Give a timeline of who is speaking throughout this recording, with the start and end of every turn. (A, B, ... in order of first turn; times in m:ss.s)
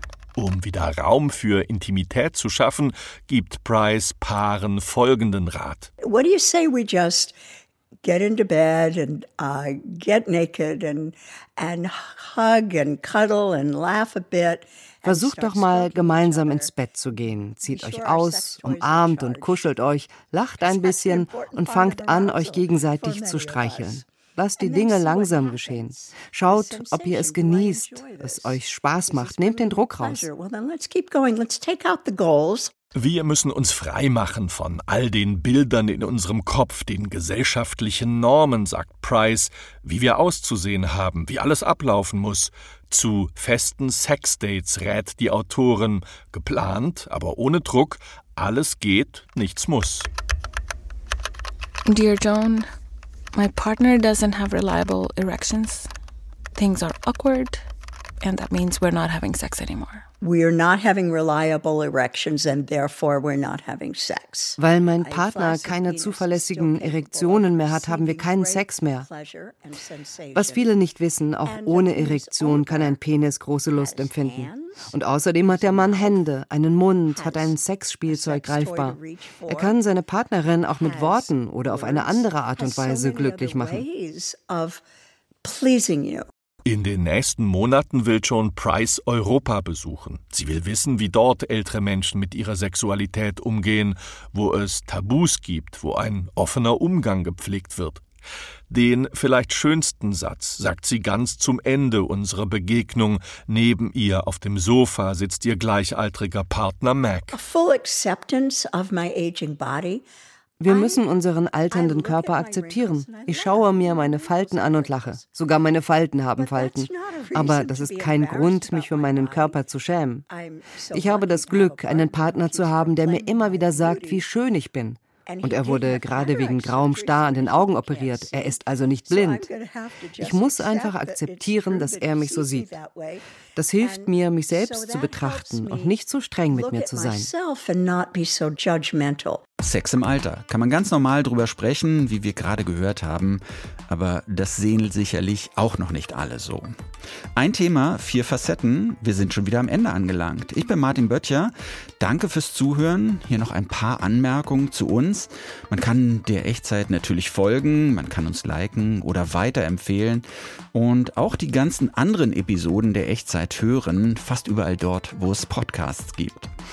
0:00.4-0:05.9 A
0:06.0-0:07.4 B
0:08.0-0:16.7 B
0:15.0-0:30.2 C
0:17.5-0:19.6 B
0:20.6-0:32.7 B
0:32.9-0:50.1 A
0:51.8-0:52.7 D
0:53.3-0:55.9 D
0:56.5-0:57.6 D
0:58.2-1:00.0 D
1:00.2-1:10.8 B
1:04.6-1:09.0 C
1:10.3-1:19.0 C
1:11.4-1:13.0 B
1:13.7-1:14.8 B
1:15.4-1:16.2 B
1:17.1-1:19.8 B
1:19.5-1:23.8 C
1:20.8-1:24.8 B
1:25.4-1:26.3 B
1:26.6-1:38.0 A
1:38.7-1:47.3 A
1:47.3-1:50.0 B
1:50.6-1:55.3 B
1:50.6-2:00.2 C
1:56.3-1:59.6 B
2:00.2-2:04.3 B
2:00.9-2:09.5 C
2:05.2-2:13.2 B
2:10.2-2:12.7 C
2:13.6-2:17.3 C
2:13.8-2:19.4 B
2:19.6-2:26.7 E
2:27.4-2:46.5 E